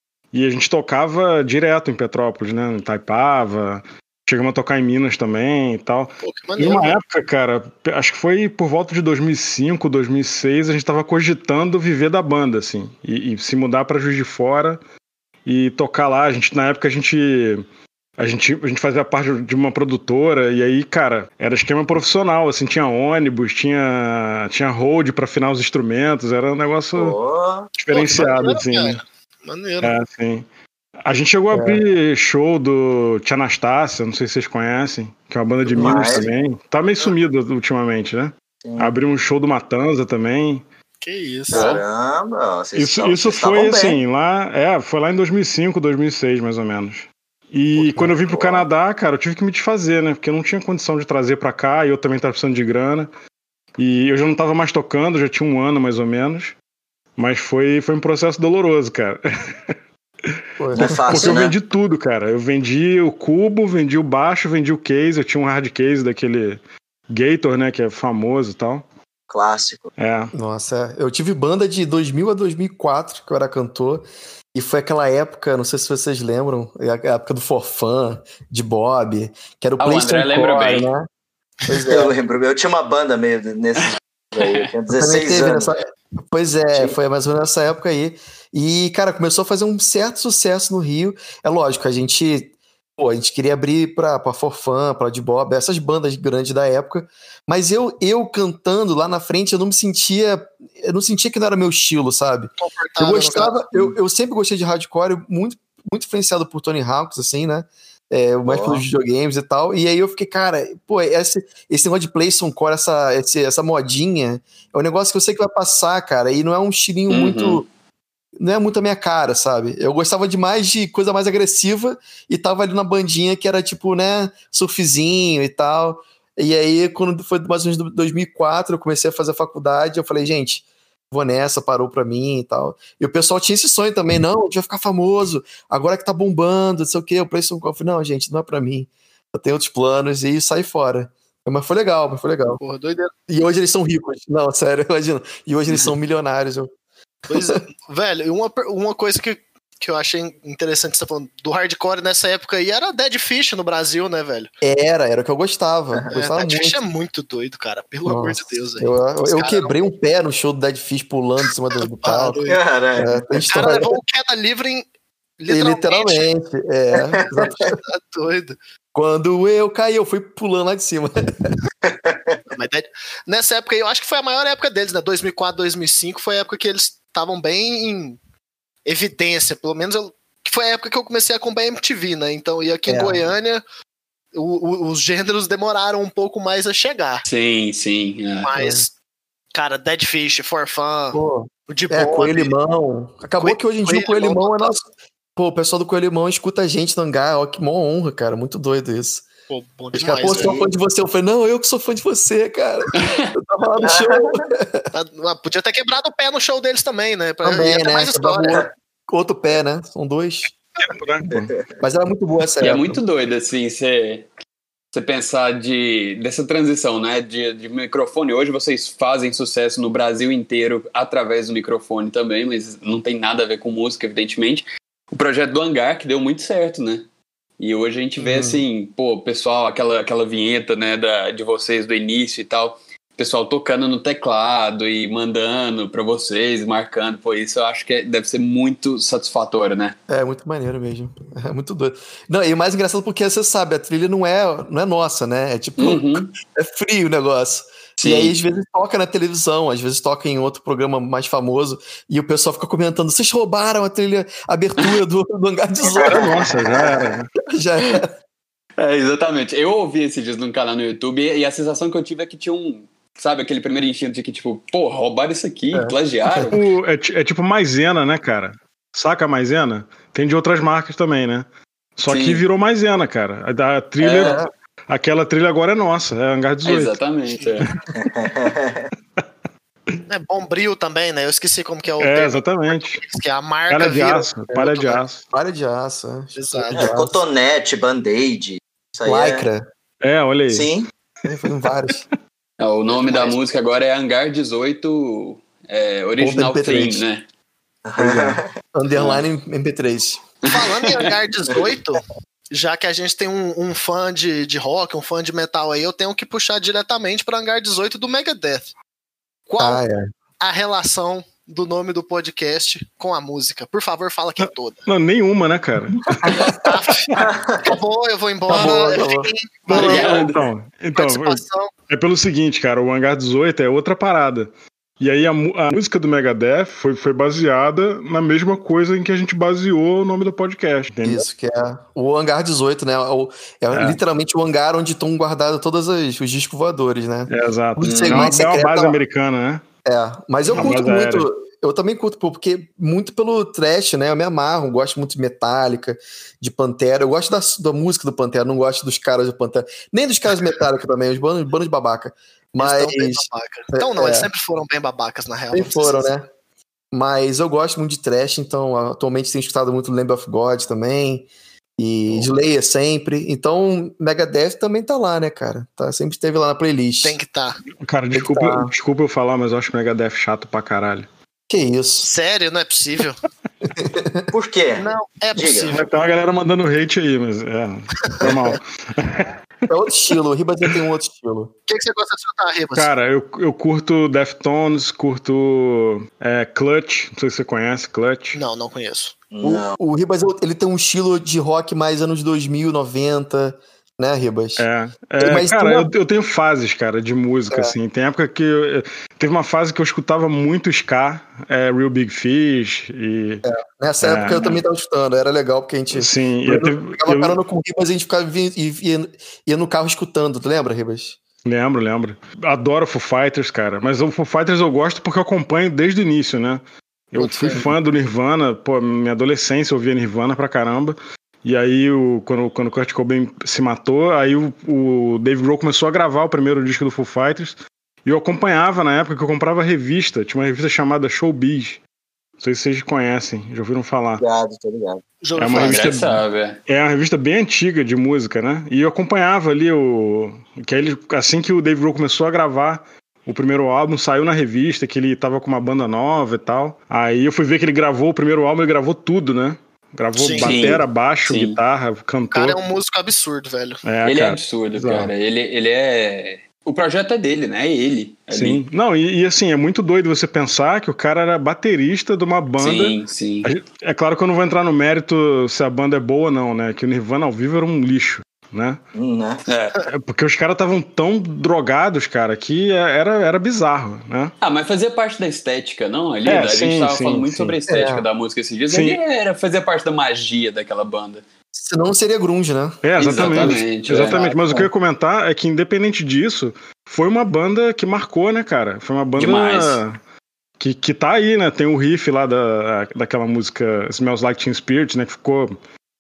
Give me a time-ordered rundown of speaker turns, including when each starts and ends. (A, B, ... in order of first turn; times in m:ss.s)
0:00.3-0:14.8 A
0:06.2-0:07.0 B
0:15.5-0:17.6 A
0:18.2-0:27.2 A
0:27.0-0:27.7 C
0:27.8-0:29.0 A
0:27.9-0:29.9 B
0:29.8-0:30.5 A
0:31.0-0:40.6 A
0:31.5-0:31.8 D
0:35.6-0:36.3 C
0:38.6-0:39.0 C
0:41.0-0:41.7 B
0:41.5-0:41.8 E
0:41.5-0:44.0 C
0:42.8-0:53.1 A
0:47.8-0:48.1 D
0:48.3-0:48.6 C
0:53.8-0:56.6 A
0:57.2-0:59.2 A
1:00.3-1:08.8 A
1:00.6-1:01.0 D
1:00.7-1:01.6 C
1:09.3-1:09.9 C
1:10.0-1:10.3 A
1:10.3-1:21.1 D
1:19.8-1:20.9 E
1:21.7-1:22.1 D
1:21.9-1:25.7 C
1:24.4-1:24.7 E
1:24.9-1:57.6 D
1:42.6-1:43.7 B
1:48.4-1:48.8 C
1:57.1-1:57.6 E
1:58.4-2:22.6 D
2:22.6-2:23.1 B
2:23.3-2:26.7 D
2:27.3-2:34.5 B
2:27.3-2:27.6 D
2:34.6-2:36.8 D
2:36.1-2:39.8 B
2:38.0-2:42.4 D
2:42.0-2:42.6 B
2:42.5-2:43.7 C
2:43.0-2:44.0 D
2:43.5-2:44.9 B
2:45.4-2:46.3 B
2:45.5-2:47.8 D
2:47.0-2:47.3 C
2:47.4-2:48.6 B
2:48.9-2:51.5 D
2:51.8-2:52.4 C
2:52.5-2:58.2 B
2:58.8-3:03.6 B
3:02.9-3:03.2 D
3:04.3-3:07.2 B
3:07.3-3:08.5 E
3:08.4-3:08.9 B
3:08.6-3:08.8 D
3:09.5-3:12.5 B
3:11.1-3:14.8 D
3:13.4-3:14.8 B
3:15.4-3:19.3 D
3:19.5-3:20.5 B
3:20.0-3:24.8 D
3:23.0-3:23.3 E
3:23.8-3:24.4 C
3:24.9-3:28.7 B
3:27.4-3:30.5 D
3:30.8-3:31.5 A
3:31.3-3:31.6 C
3:31.8-3:33.0 D
3:32.6-3:34.3 E
3:34.9-3:47.1 E
3:47.6-4:00.0 E
3:48.2-3:48.6 D
4:00.1-4:16.6 D
4:05.8-4:06.3 E
4:08.0-4:08.4 E
4:16.0-4:17.0 C
4:16.0-4:17.3 A
4:17.5-4:18.1 D
4:18.8-4:26.6 E
4:25.7-4:26.5 D
4:26.5-4:37.0 A
4:32.1-4:32.4 E
4:34.0-4:34.4 E
4:34.2-4:34.5 D
4:36.6-4:37.7 E
4:37.9-4:38.9 C
4:40.1-4:44.9 B
4:42.0-4:43.0 A
4:43.7-4:45.2 A
4:44.5-4:44.8 D
4:45.3-4:47.2 D
4:46.4-4:46.8 B
4:46.8-4:49.5 C
4:49.1-4:49.7 D
4:50.0-4:50.7 A
4:50.5-4:50.9 C
4:51.2-4:52.0 D
4:52.6-4:57.2 E
4:56.2-4:57.0 D
4:57.9-4:58.5 C
4:58.0-5:00.2 D
4:59.0-4:59.2 E
5:00.5-5:08.7 B
5:00.5-5:01.1 E
5:09.5-5:09.8 B
5:09.6-5:10.0 D
5:10.4-5:14.9 B
5:14.9-5:16.3 A
5:16.2-5:16.8 D
5:16.4-5:20.3 B
5:17.2-5:17.8 C
5:18.5-5:19.3 D
5:19.7-5:31.3 A
5:19.7-5:20.4 E
5:21.0-5:21.7 B
5:31.0-5:39.0 D
5:33.7-5:34.0 A
5:37.3-5:39.6 A
5:37.8-5:38.4 E
5:39.8-5:54.3 D
5:40.6-5:41.3 A
5:52.6-5:56.1 B
5:55.5-5:56.3 D
5:56.9-6:07.2 D
6:07.0-6:07.6 B
6:07.8-6:11.1 A
6:08.1-6:08.7 D
6:11.5-6:12.1 D
6:12.0-6:13.2 B
6:13.8-6:14.3 D
6:14.3-6:15.8 C
6:14.8-6:15.9 B
6:15.7-6:19.3 A
6:18.1-6:18.6 B
6:19.7-6:21.5 D
6:21.7-6:22.9 B
6:22.8-6:28.4 A
6:28.3-6:29.1 B
6:29.3-6:29.8 C
6:29.4-6:34.6 D
6:34.6-6:43.4 A
6:35.2-6:35.9 D
6:43.4-6:51.2 D
6:44.0-6:44.6 A
6:45.9-6:47.4 A
6:51.4-7:11.8 A
6:57.2-6:57.6 B
7:12.4-7:14.2 A
7:14.2-7:15.0 C
7:15.2-7:15.8 B
7:15.4-7:32.6 A
7:15.5-7:16.6 E
7:30.1-7:30.8 B
7:30.3-7:31.6 E
7:32.3-7:33.8 B
7:33.8-7:35.1 A
7:34.0-7:38.6 E
7:38.3-7:48.8 A
7:42.6-7:43.5 E
7:49.0-7:49.4 C
7:49.5-7:49.9 E
7:49.9-7:54.3 A
7:54.4-8:01.2 E
7:56.3-7:57.6 A
7:57.7-7:58.1 D
7:58.7-7:59.0 A
8:01.5-8:03.6 D
8:02.8-8:10.0 A
8:03.0-8:04.7 E
8:09.2-8:09.8 E
8:10.6-8:15.6 A